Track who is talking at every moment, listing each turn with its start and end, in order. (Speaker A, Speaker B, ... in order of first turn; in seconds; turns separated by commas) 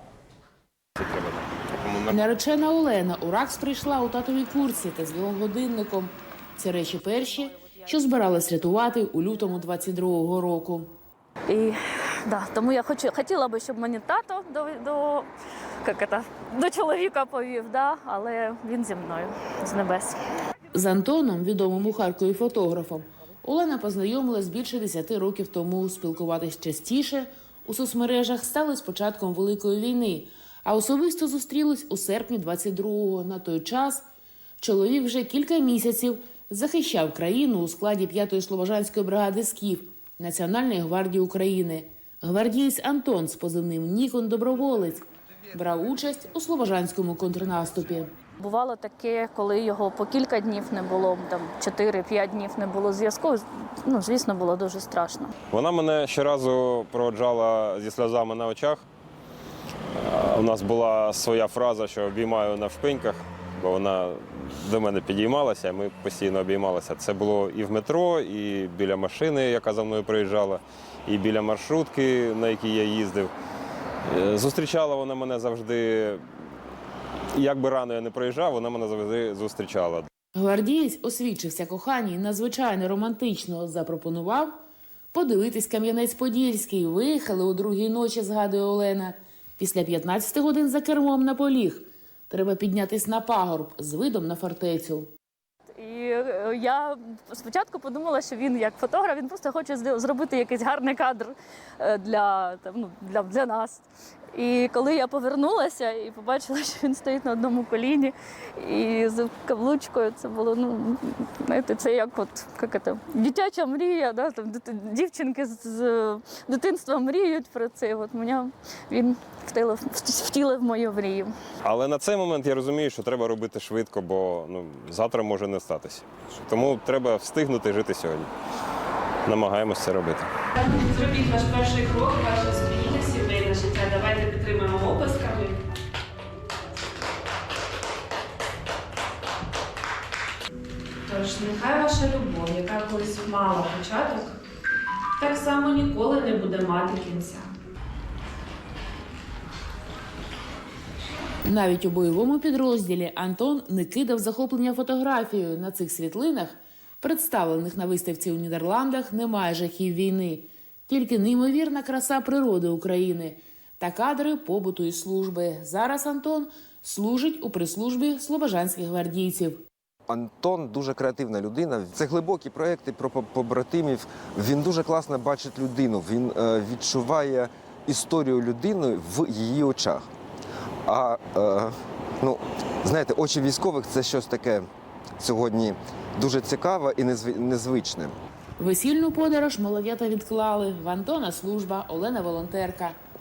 Speaker A: 1.0-2.2, Speaker B: 2.1-10.9, Speaker C: 11.5-15.3, Speaker C: 15.8-20.2, Speaker B: 20.7-34.0, Speaker B: 34.6-48.1, Speaker C: 48.4-55.3, Speaker A: 55.5-58.8, Speaker A: 60.0-73.3, Speaker A: 74.1-76.2, Speaker A: 77.3-80.1, Speaker B: 80.3-84.5, Speaker B: 85.1-95.1, Speaker C: 95.8-103.8, Speaker C: 104.3-121.3, Speaker A: 121.6-128.3, Speaker A: 129.2-130.3, Speaker D: 130.6-135.6, Speaker D: 141.1-144.3, Speaker D: 145.2-147.5, Speaker B: 151.4-169.6, Speaker E: 170.1-180.1, Speaker E: 180.8-184.7, Speaker E: 185.2-188.1, Speaker B: 188.6-193.0